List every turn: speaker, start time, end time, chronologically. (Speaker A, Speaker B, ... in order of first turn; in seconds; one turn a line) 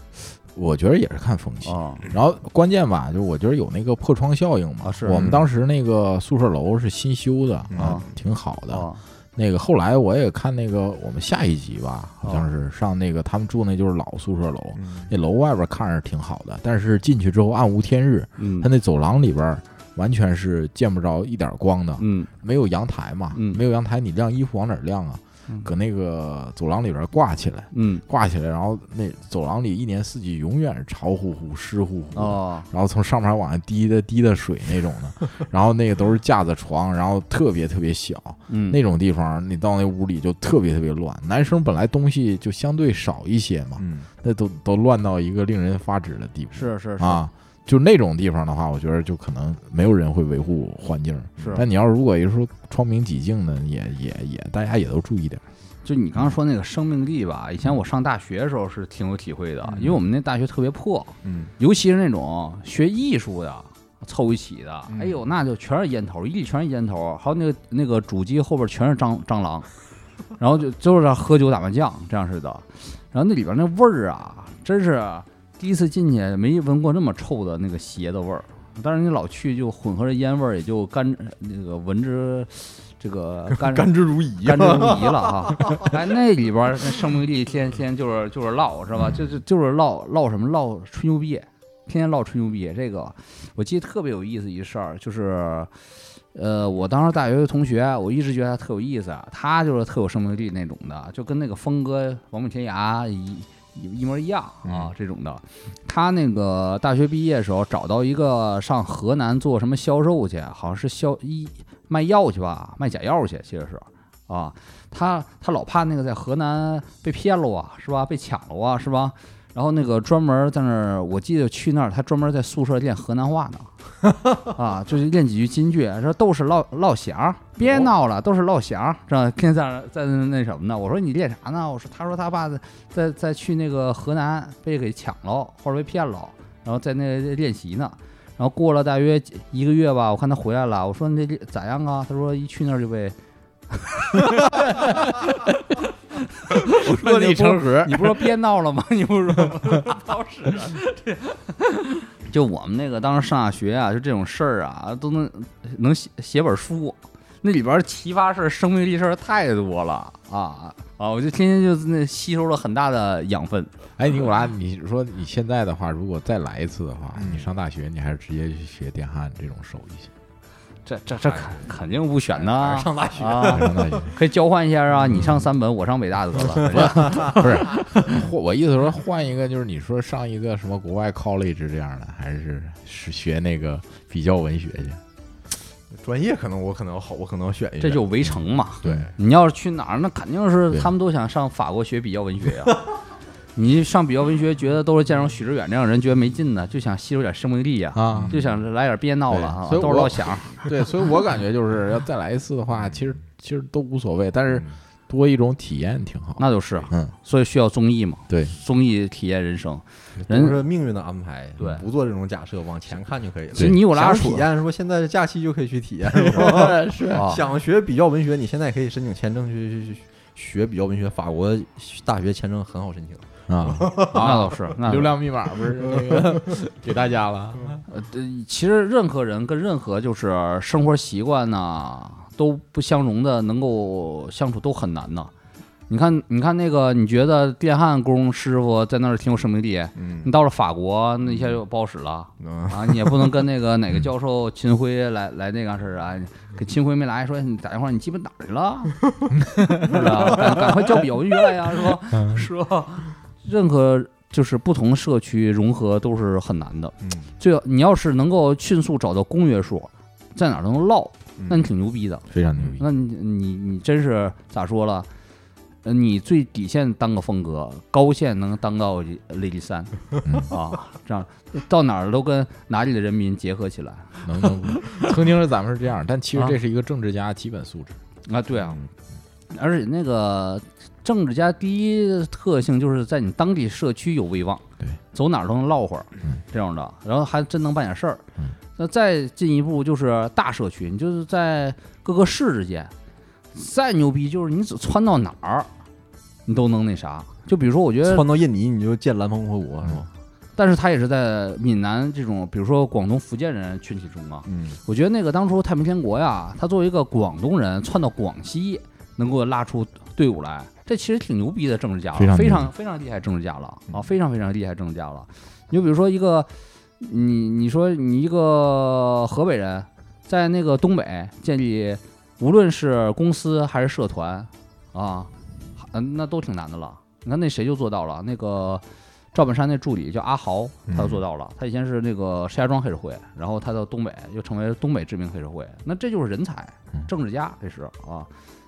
Speaker A: 0.2-55.4
Speaker B: 1.6-2.0
Speaker B: 4.8-5.2
Speaker C: 5.1-5.4
Speaker C: 7.7-8.1
Speaker B: 7.8-8.0
Speaker B: 8.7-9.0
Speaker C: 14.8-15.1
Speaker B: 18.4-18.7
Speaker B: 22.0-22.3
Speaker B: 23.3-23.6
Speaker B: 27.7-28.0
Speaker B: 32.1-32.7
Speaker B: 38.5-38.8
Speaker C: 43.8-44.1
Speaker B: 46.5-47.3
Speaker C: 51.4-51.6
Speaker B: 51.4-51.6
Speaker B: 55.8-69.7
Speaker C: 59.6-60.0
Speaker C: 61.2-61.5
Speaker C: 64.9-65.2
Speaker B: 70.4-83.9
Speaker C: 83.6-85.9
Speaker B: 84.4-95.7
Speaker B: 96.3-123.7
Speaker C: 104.6-104.9
Speaker B: 124.5-143.2
Speaker B: 143.7-145.8
Speaker A: 144.7-145.1
Speaker B: 146.4-163.7
Speaker A: 146.5-148.2
Speaker A: 164.0-170.1
Speaker C: 167.2-167.5
Speaker B: 170.8-177.6
Speaker C: 171.2-171.7
Speaker C: 172.3-174.1
Speaker A: 173.4-174.1
Speaker C: 176.6-177.5
Speaker A: 176.7-185.0
Speaker C: 185.9-188.3
Speaker B: 187.8-192.8
Speaker C: 188.8-189.1
Speaker A: 188.8-189.1
Speaker B: 193.6-200.6
Speaker A: 197.9-198.4
Speaker C: 198.1-198.5
Speaker A: 199.3-207.1
Speaker B: 206.4-210.6
Speaker C: 210.2-224.3
Speaker B: 213.5-214.4
Speaker A: 216.1-217.3
Speaker B: 217.1-217.4
Speaker A: 223.5-227.8
Speaker B: 224.1-225.1
Speaker B: 227.9-235.3
Speaker B: 235.9-249.0
Speaker C: 239.9-240.3
Speaker C: 241.2-241.6
Speaker C: 242.4-243.4
Speaker A: 249.6-250.0
Speaker B: 249.8-262.2
Speaker C: 250.0-250.6
Speaker A: 252.1-252.4
Speaker C: 257.0-257.3
Speaker C: 261.4-261.7
Speaker A: 262.3-262.8
Speaker B: 262.8-265.1
Speaker B: 265.8-274.5
Speaker A: 274.2-278.0
Speaker B: 278.3-278.8
Speaker B: 279.5-288.2
Speaker B: 288.8-292.9
Speaker B: 293.5-295.7
Speaker B: 296.4-298.2
Speaker C: 298.0-300.1
Speaker B: 300.6-338.3
Speaker C: 304.5-304.8
Speaker A: 312.1-312.7
Speaker C: 330.9-331.2